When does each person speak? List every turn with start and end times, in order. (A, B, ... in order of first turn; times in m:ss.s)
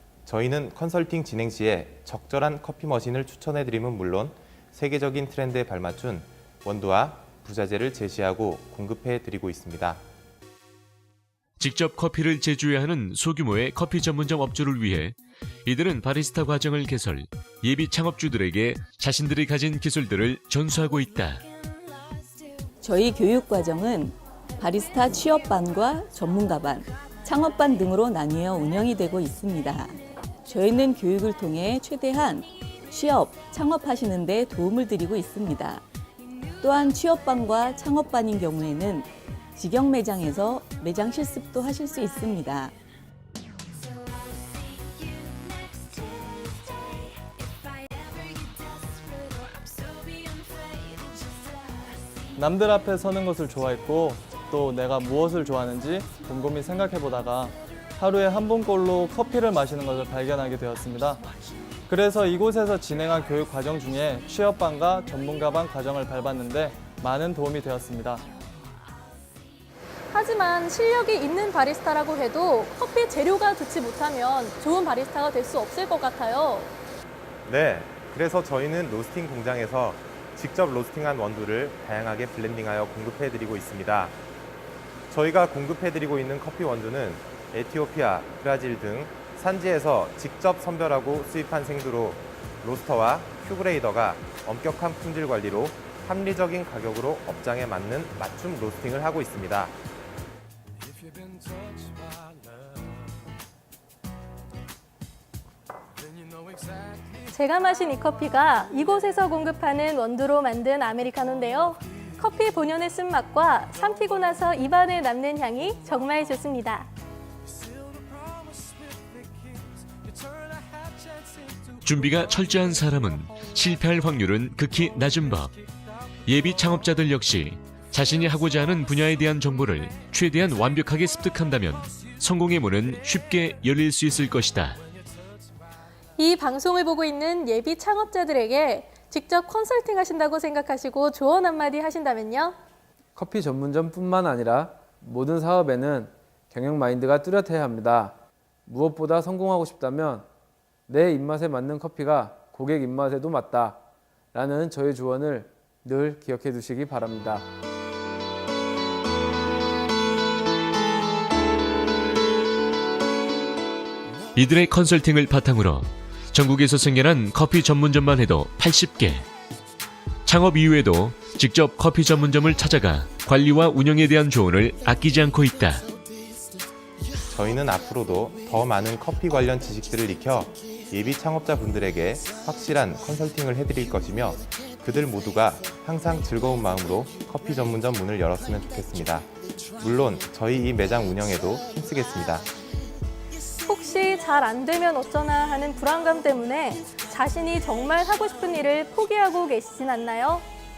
0:00.2-0:10.0 A
0:11.6-0:21.4 B
0:22.8-0:35.8 C
0:36.6-0:42.7 C
0:52.4-1:01.2 D
1:01.9-1:08.3 D
1:10.1-1:16.7 E
1:17.5-1:24.2 A
1:25.1-1:39.8 A
1:47.3-1:56.9 E
2:01.8-2:05.5 B
2:06.3-2:14.8 B
2:16.2-2:22.6 E
2:23.2-2:30.3 F
2:30.9-2:37.5 F
2:44.4-2:49.3 B
2:50.2-2:55.9 B
2:57.3-3:09.3 A
3:09.8-3:12.5 A
3:13.6-3:20.5 E